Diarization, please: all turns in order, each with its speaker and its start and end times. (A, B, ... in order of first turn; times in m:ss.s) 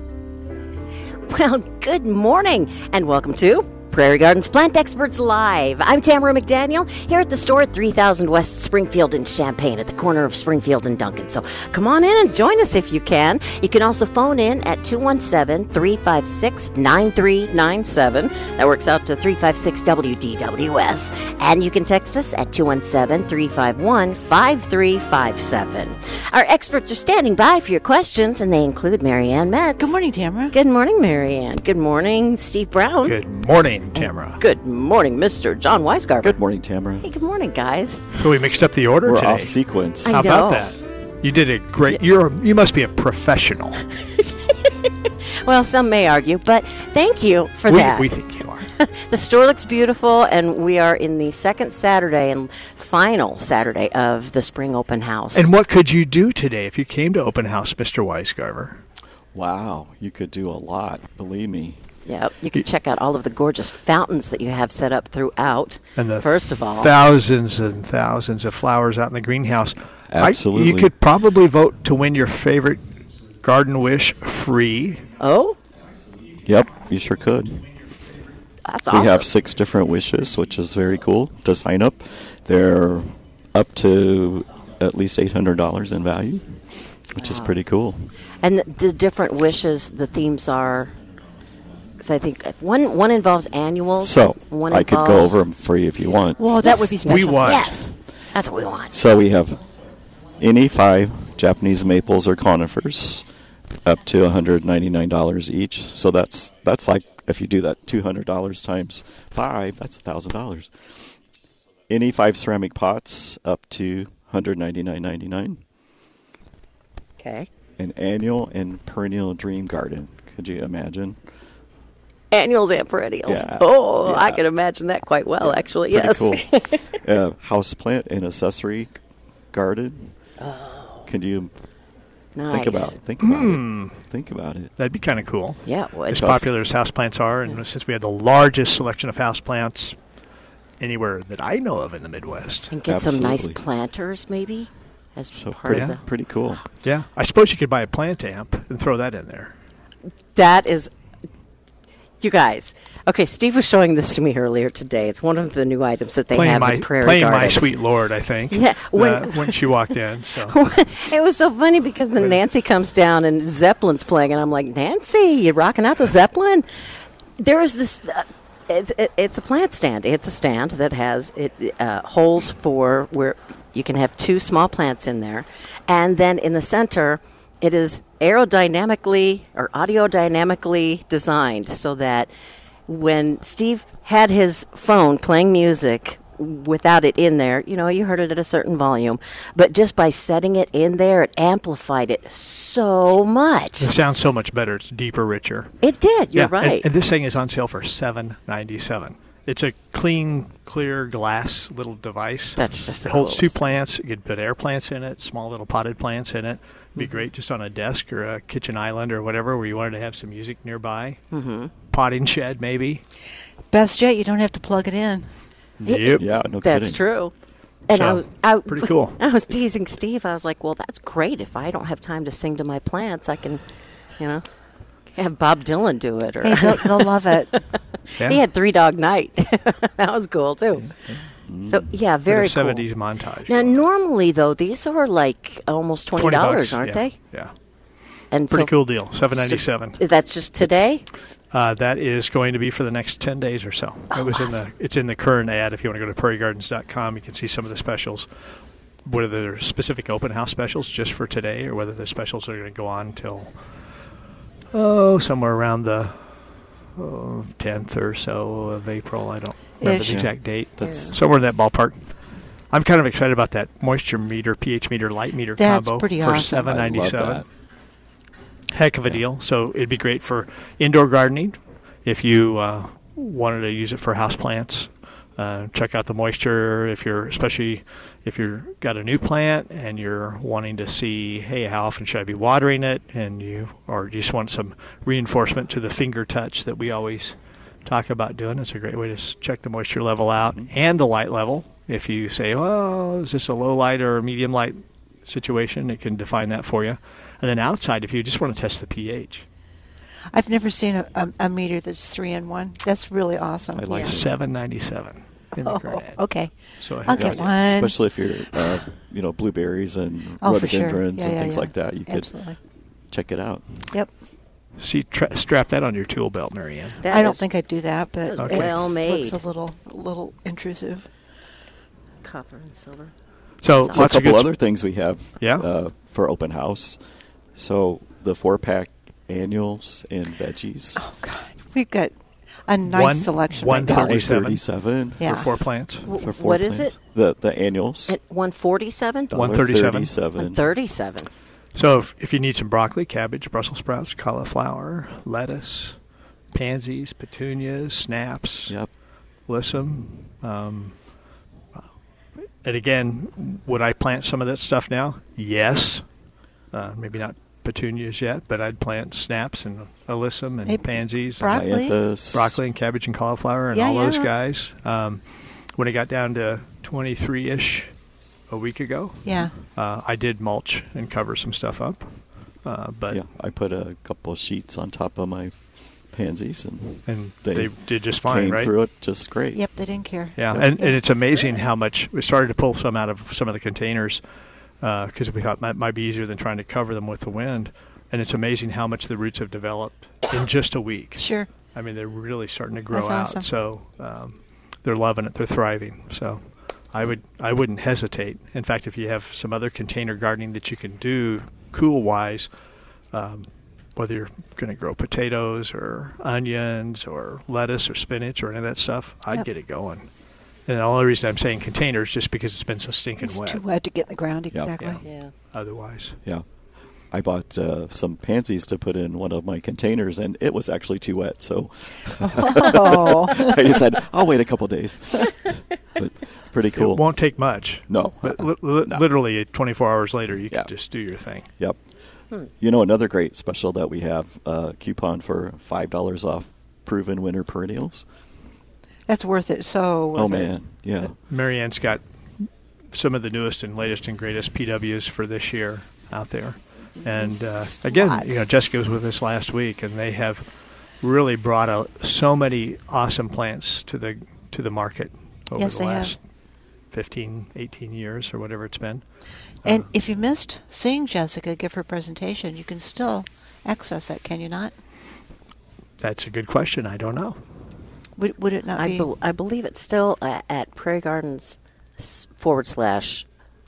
0:01.2-0:30.0 A
0:29.8-0:30.6 B
0:30.5-0:33.2 A
0:33.0-0:34.4 C
0:34.0-0:36.4 A
0:36.2-0:37.1 D
0:37.0-0:38.0 A
0:38.1-0:43.8 C
0:39.0-0:40.2 D
0:40.0-0:40.7 A
0:44.0-0:48.1 A
0:47.7-0:48.7 C
0:48.7-0:55.5 A
0:55.4-0:58.8 C
0:59.3-1:01.8 D
1:02.0-1:06.9 A
1:06.0-1:12.9 C
1:10.1-1:10.9 D
1:13.4-1:15.1 C
1:15.2-1:15.6 A
1:16.4-1:17.8 D
1:18.6-1:19.3 A
1:18.9-1:28.1 D
1:27.2-1:27.6 A
1:28.4-1:31.0 A
1:32.0-1:35.4 A
1:34.0-1:36.5 D
1:36.4-1:37.9 B
1:36.6-1:39.1 A
1:37.0-1:37.8 C
1:38.9-1:39.7 D
1:40.4-1:43.3 D
1:43.8-1:51.2 D
1:51.9-1:55.6 D
1:57.2-1:57.5 A
1:57.8-2:01.2 D
2:02.3-2:07.0 A
2:03.3-2:04.4 D
2:05.4-2:09.0 D
2:09.5-2:10.1 D
2:10.4-2:11.1 A
2:11.1-2:11.5 D
2:12.4-2:13.0 A
2:12.5-2:14.7 D
2:13.2-2:14.0 C
2:14.8-2:20.0 C
2:15.6-2:16.4 A
2:16.1-2:16.5 D
2:20.8-2:22.7 C
2:22.7-2:26.0 A
2:22.9-2:23.6 D
2:25.3-2:26.6 D
2:25.7-2:26.0 C
2:26.8-2:29.5 C
2:30.4-2:30.9 A
2:32.2-2:37.7 A
2:36.3-2:40.6 C
2:38.5-2:39.7 A
2:40.4-2:46.7 A
2:47.4-3:02.3 A
3:02.9-3:13.9 A
3:13.8-3:15.8 C
3:15.8-3:16.9 A
3:16.3-3:31.2 C
3:22.6-3:23.6 A
3:27.0-3:27.2 A
3:31.3-3:31.7 A
3:31.9-3:33.0 C
3:33.7-3:35.4 B
3:35.8-3:36.2 C
3:35.8-3:37.3 A
3:36.1-3:37.0 D
3:37.9-3:43.6 A
3:37.9-3:39.2 C
3:44.2-3:44.5 A
3:45.1-3:50.9 A
3:46.4-3:47.5 B
3:50.8-3:51.2 C
3:51.5-3:51.9 D
3:51.7-3:52.9 A
3:52.3-3:53.8 C
3:53.5-3:57.2 A
3:56.2-3:57.5 C
3:58.3-3:58.7 A
3:58.5-4:00.0 C
3:59.4-4:01.1 A
4:01.5-4:08.3 C
4:04.1-4:04.6 A
4:09.0-4:13.5 C
4:14.7-4:16.3 C
4:17.0-4:22.0 C
4:19.8-4:21.0 D
4:20.8-4:21.2 A
4:22.7-4:27.4 C
4:25.6-4:26.8 B
4:26.7-4:27.5 D
4:28.7-4:59.4 C
5:00.3-5:04.2 B
5:03.7-5:04.3 D
5:04.0-5:06.2 C
5:05.6-5:08.8 B
5:06.8-5:07.5 C
5:07.1-5:12.4 D
5:10.4-5:12.6 B
5:13.1-5:13.9 D
5:14.8-5:17.0 C
5:17.0-5:17.4 A
5:17.1-5:21.1 B
5:18.3-5:19.4 A
5:18.4-5:18.8 C
5:22.2-5:23.1 A
5:23.6-5:24.5 C
5:23.8-5:24.1 A
5:23.9-5:27.0 D
5:25.4-5:25.7 C
5:27.6-5:31.0 D
5:31.0-5:32.1 B
5:32.7-5:34.3 B
5:32.9-5:34.6 C
5:33.8-5:35.4 D
5:35.2-5:36.1 C
5:35.2-5:35.5 B
5:36.0-5:37.0 A
5:36.1-5:38.2 D
5:38.1-5:39.3 A
5:39.3-5:40.6 D
5:39.3-5:40.1 C
5:40.4-5:41.3 A
5:41.8-5:46.0 C
5:46.5-5:48.8 C
5:49.5-5:51.0 C
5:52.6-5:56.0 C
5:56.7-6:01.7 C
6:00.6-6:02.0 B
6:01.5-6:02.6 D
6:02.3-6:05.2 C
6:03.7-6:04.3 B
6:05.8-6:07.9 C
6:08.5-6:13.2 C
6:09.2-6:09.5 B
6:13.1-6:15.6 D
6:16.1-6:19.6 D
6:17.1-6:18.7 C
6:19.5-6:21.0 B
6:20.4-6:24.2 C
6:24.8-6:42.5 C
6:31.2-6:31.5 B
6:32.9-6:33.5 B
6:43.1-6:50.1 C
6:50.7-6:53.6 C
6:53.2-6:55.0 B
6:54.8-6:56.2 C
6:55.0-6:55.3 A
6:57.1-7:07.0 D
7:02.2-7:03.6 B
7:06.8-7:11.5 C
7:07.9-7:09.0 D
7:12.6-7:18.0 D
7:19.1-7:20.5 B
7:20.2-7:21.2 D
7:21.3-7:30.4 C
7:27.0-7:28.4 B
7:31.0-7:36.2 C
7:35.6-7:36.1 B
7:36.9-7:39.0 C
7:39.6-7:39.9 C
7:39.6-7:44.7 B
7:46.0-7:47.4 C
7:48.2-7:49.1 B
7:48.8-7:53.3 A